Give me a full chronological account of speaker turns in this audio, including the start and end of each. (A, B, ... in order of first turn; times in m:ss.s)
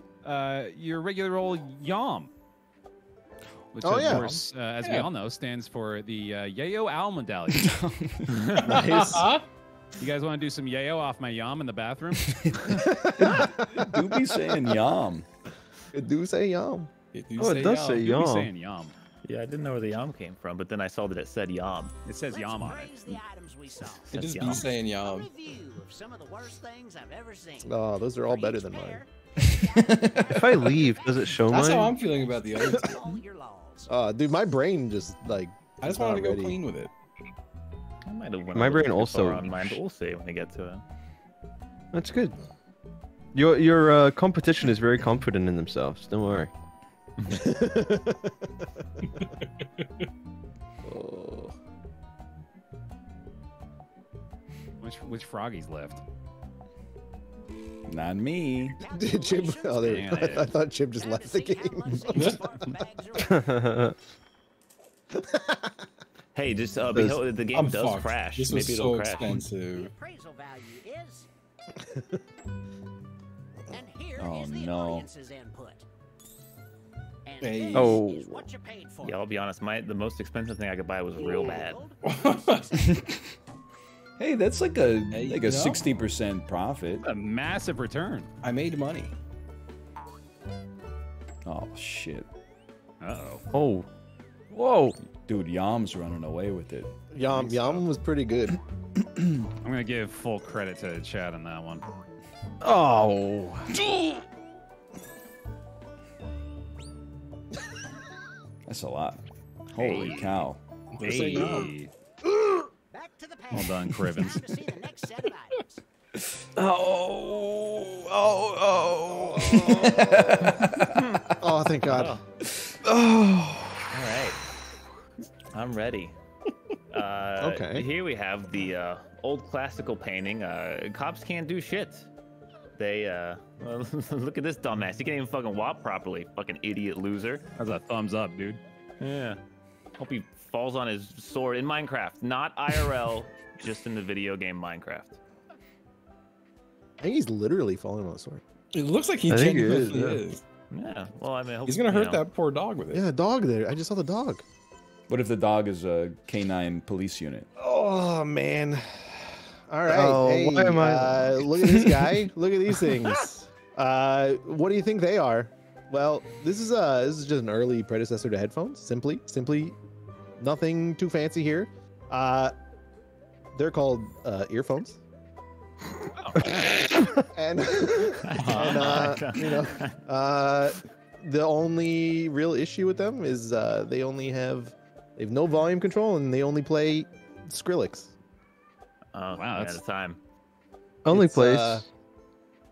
0:00.2-0:02.3 A
0:03.7-0:07.7 A
0:03.8-0:04.4 B
0:04.8-0:05.1 C
0:07.5-0:08.6 D
0:08.5-0:09.2 A
0:08.6-0:09.4 C
0:08.6-0:09.2 E
0:10.0-0:12.8 A
0:12.3-0:12.6 D
0:12.6-0:14.5 B
0:13.2-0:15.2 D
0:15.9-0:16.9 B
0:17.1-0:18.1 C
0:17.4-0:18.5 F
0:17.9-0:18.9 A
0:19.2-0:21.9 E
0:22.0-0:23.1 A
0:22.2-0:33.9 G
0:24.1-0:24.7 E
0:24.1-0:25.3 C
0:27.6-0:29.0 B
0:29.4-0:30.8 D
0:30.3-0:31.9 F
0:31.5-0:33.0 C
0:33.9-0:36.6 B
0:35.8-0:36.9 C
0:38.0-0:40.8 E
0:38.5-0:39.8 F
0:41.9-0:42.3 F
0:43.3-0:46.5 F
0:47.3-0:48.4 B
0:50.8-0:51.5 B
0:54.8-0:56.0 A
0:57.9-0:58.8 D
0:58.7-1:03.7 G
0:58.8-1:02.5 B
0:59.8-1:00.5 A
1:02.1-1:02.4 C
1:03.4-1:03.9 F
1:05.2-1:05.6 B
1:06.3-1:09.4 E
1:07.5-1:09.9 C
1:09.1-1:11.3 G
1:13.7-1:15.8 G
1:14.2-1:15.1 D
1:17.2-1:19.2 G
1:17.4-1:18.0 C
1:17.7-1:18.4 F
1:19.0-1:21.8 E
1:21.2-1:22.8 G
1:22.0-1:22.6 C
1:24.2-1:27.0 D
1:25.1-1:25.9 C
1:27.0-1:28.3 A
1:28.4-1:29.1 C
1:31.4-1:32.3 D
1:33.0-1:33.4 A
1:33.5-1:33.8 F
1:34.5-1:35.0 F
1:35.3-1:36.9 D
1:37.1-1:38.6 B
1:39.0-1:39.4 D
1:39.6-1:41.8 A
1:42.6-1:43.7 F
1:43.8-1:44.2 D
1:48.7-1:49.2 D
1:49.7-1:50.6 D
1:49.8-1:50.5 A
1:50.9-1:51.7 C
1:51.0-1:51.9 A
1:52.9-1:55.8 G
1:53.5-1:54.5 A
1:56.6-1:59.5 F
1:59.3-2:00.6 B
1:59.5-2:01.1 D
2:00.9-2:01.2 E
2:01.4-2:02.2 B
2:01.8-2:02.2 E
2:02.8-2:03.8 F
2:03.9-2:04.4 E
2:05.5-2:06.1 E
2:06.9-2:12.1 E
2:07.4-2:07.8 B
2:12.8-2:17.5 E
2:17.6-2:18.6 A
2:19.0-2:19.4 E
2:20.0-2:25.2 E
2:27.0-2:28.4 B
2:28.7-2:30.4 C
2:29.3-2:30.2 F
2:30.7-2:32.2 E
2:31.6-2:33.0 C
2:32.9-2:34.4 B
2:35.1-2:37.5 D
2:37.6-2:49.7 B
2:39.9-2:41.3 F
2:41.5-2:42.2 D
2:50.4-2:52.5 B
2:53.5-2:55.0 B
2:56.2-2:56.9 A
2:57.3-3:08.1 B
2:58.2-3:00.0 E
2:58.4-2:59.2 C
3:09.1-3:10.2 E
3:09.4-3:09.8 A
3:11.0-3:11.8 F
3:11.1-3:11.8 B